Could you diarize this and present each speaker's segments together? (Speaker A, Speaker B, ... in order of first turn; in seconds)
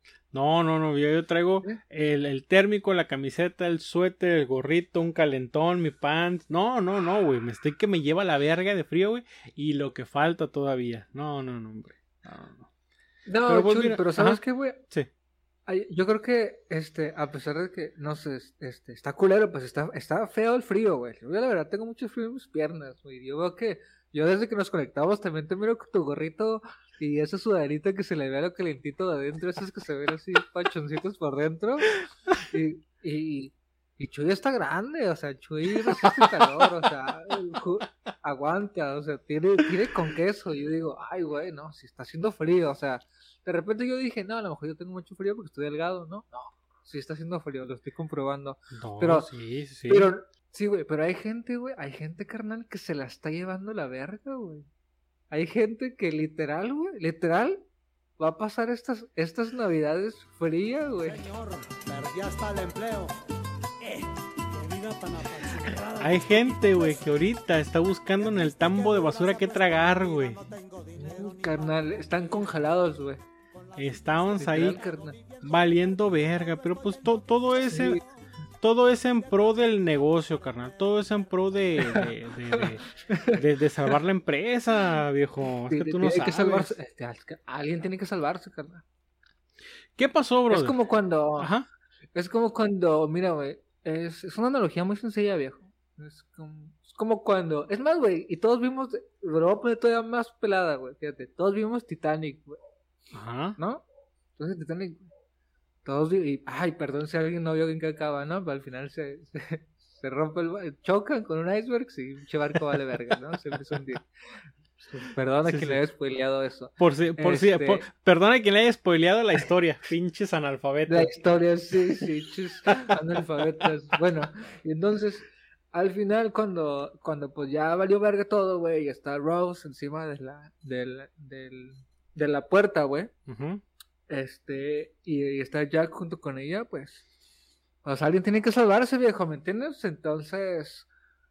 Speaker A: 0.3-12.7, 13.5-15.1, 35.8-36.6, 48.7-50.1, 66.0-70.4, 73.8-74.8, 75.4-78.0, 78.6-82.8, 83.3-86.7, 90.0-90.8, 91.4-91.7, 103.1-103.6, 115.5-115.8, 116.8-121.1, 122.9-123.7, 133.3-133.6
Speaker B: 13.3-14.8, 15.7-49.3, 49.9-54.7, 55.3-57.6, 58.2-61.2, 70.9-73.2, 74.4-75.2, 77.7-78.0, 81.8-83.9, 85.7-88.8, 90.5-91.5, 92.1-102.6, 103.6-103.8, 104.4-105.0, 105.8-114.0, 114.8-117.8, 120.9-133.1, 134.1-137.0, 137.8-140.9
Speaker C: 61.1-63.1, 63.8-66.9, 68.9-71.2